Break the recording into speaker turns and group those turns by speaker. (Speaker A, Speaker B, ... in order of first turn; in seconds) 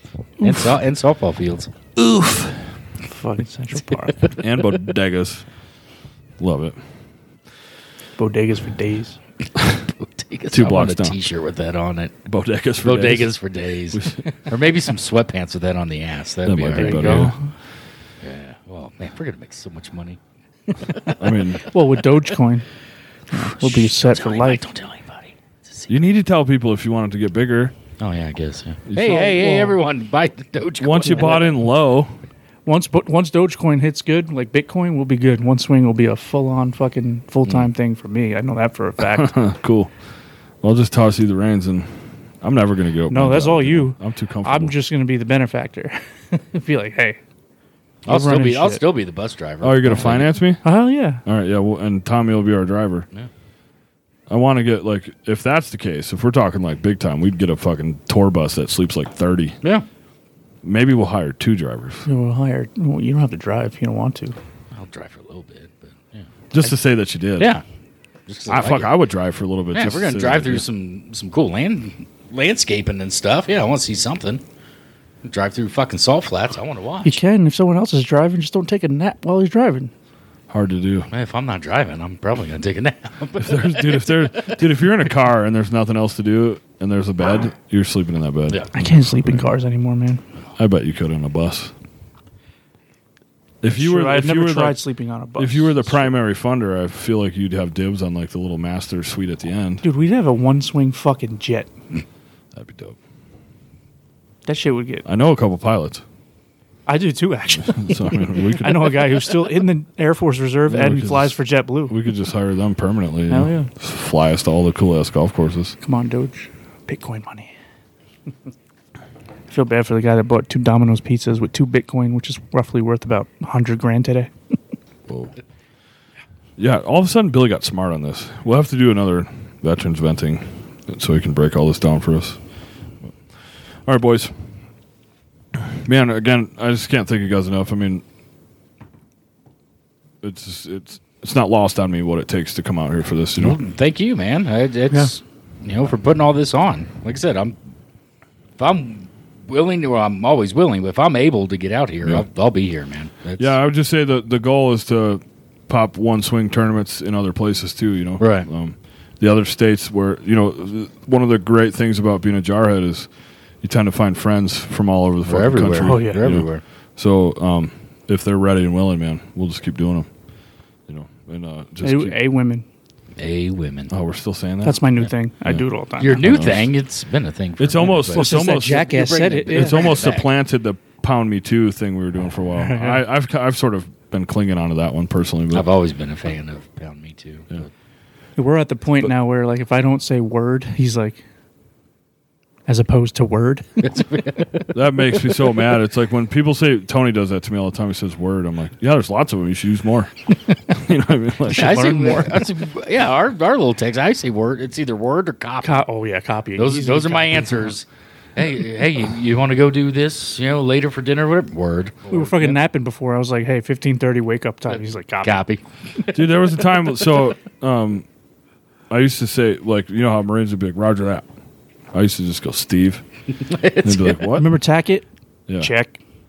Speaker A: 0.4-1.7, 9.9-12.2, 12.8-17.3, 18.2-21.1, 23.3-25.9, 28.0-31.5, 48.0-50.3, 64.7-66.7, 67.4-67.6, 68.3-68.9, 69.7-74.4, 75.2-77.2, 81.1-84.7, 143.4-147.5, 148.6-153.6, 158.2-158.5, 165.2-166.6, 173.2-173.9, 176.0-180.3, 185.5-187.7, 193.8-194.8, 201.5-205.8, 206.6-212.6, 215.2-217.0, 223.4-224.2
Speaker B: 0.4-0.7, 2.0-2.6, 4.4-5.4, 6.4-6.8, 9.6-9.8, 10.5-11.2, 12.2-13.3, 13.9-14.3, 16.4-17.3, 21.2-21.6, 25.9-27.7, 28.9-29.2, 30.8-32.1, 39.1-39.9, 40.6-44.7, 49.6-50.6, 51.2-53.1, 54.3-59.6, 60.6-62.1, 66.5-67.5, 68.5-70.6, 80.5-81.1, 83.4-89.4, 90.6-91.7, 93.6-94.8, 95.4-99.8, 102.5-103.0, 105.0-106.0, 107.5-109.1, 110.7-111.4, 111.9-115.8, 125.1-125.3, 126.6-132.4, 133.8-134.3, 135.6-138.0, 140.2-143.6, 153.4-163.1, 163.6-170.1, 170.9-172.2, 173.9-174.8, 175.4-176.7, 177.6-178.9, 179.5-185.7, 194.7-202.3, 216.1-218.1, 218.9-221.3, 221.9-223.0, 223.8-224.5
Speaker C: 3.0-4.2, 8.2-9.2, 16.8-17.5, 21.6-22.6, 23.3-24.6, 28.9-29.8, 31.1-31.4, 32.6-39.3, 43.1-47.2, 48.0-48.8, 50.6-51.2, 62.0-64.3, 77.0-79.9, 88.7-90.2, 93.7-96.1, 99.8-101.7, 104.5-105.0, 106.9-112.0, 113.3-113.7, 115.8-117.5, 119.5-124.3, 165.8-166.2, 171.8-172.6, 174.6-176.2, 178.1-179.9, 182.5-183.0, 188.4-191.2, 192.7-193.8, 201.5-202.4, 205.6-207.7, 212.1-215.4, 224.3-225.1, 225.6-226.0